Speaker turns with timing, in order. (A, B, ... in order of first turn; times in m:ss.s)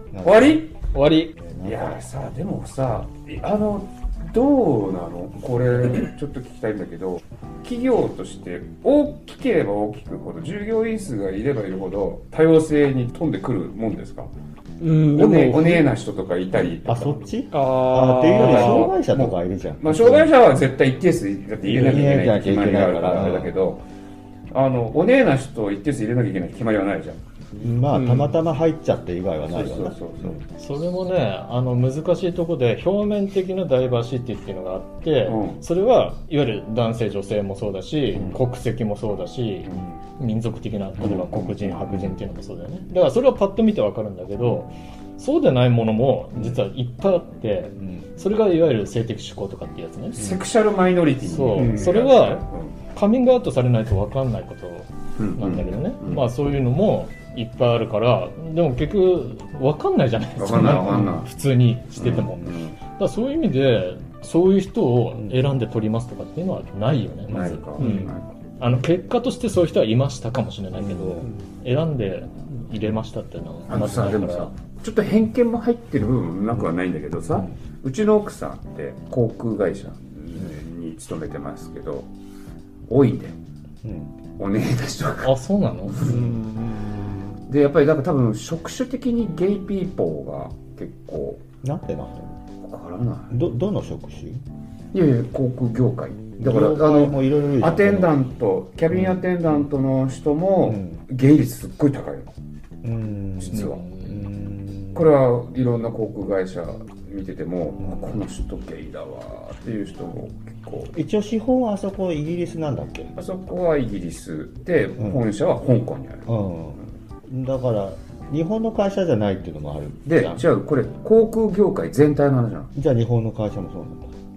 0:00.1-0:00.6 A
0:00.2-0:00.7 B
0:00.9-0:01.4 C
0:01.4-0:02.0 A
0:01.6-0:14.3 B
0:14.8-0:15.9 D
0:15.1-0:23.8 B
0:16.8-0:20.3 A
0:17.5-0:18.9 D
0:21.7-0:23.5 A
0:24.5-0:27.2 B
0:27.6-0:30.4 A
0:27.9-0:28.4 D
0:29.5-0:30.4 B
0:30.6-0:50.3 C
0:35.3-0:35.6 B
0:41.0-0:42.2 B
0:47.8-0:48.1 A
0:50.1-0:52.8 B
0:51.2-1:14.5 C
0:55.2-0:56.3 B
1:00.4-1:01.3 B
1:01.9-1:02.8 B
1:07.3-1:08.3 B
1:07.8-1:08.1 D
1:10.8-1:11.3 A
1:13.7-1:22.1 B
1:22.9-1:23.4 B
1:23.8-1:24.1 A
1:24.4-1:26.4 B
1:25.2-1:26.0 C
1:26.3-1:26.9 D
1:27.5-1:31.4 B
1:31.6-1:32.4 A
1:32.6-1:33.4 B
1:33.3-1:34.4 A
1:34.9-1:42.3 B
1:36.4-1:38.2 A
1:38.9-1:39.2 A
1:40.6-1:41.0 A
1:42.8-1:45.1 A
1:43.4-1:43.8 B
1:43.5-1:44.3 C
1:45.0-1:50.9 B
1:47.8-1:48.2 A
1:50.9-1:53.1 A
1:53.2-1:56.3 B
1:56.3-2:00.4 A
2:00.1-2:02.7 B
2:02.8-2:04.1 A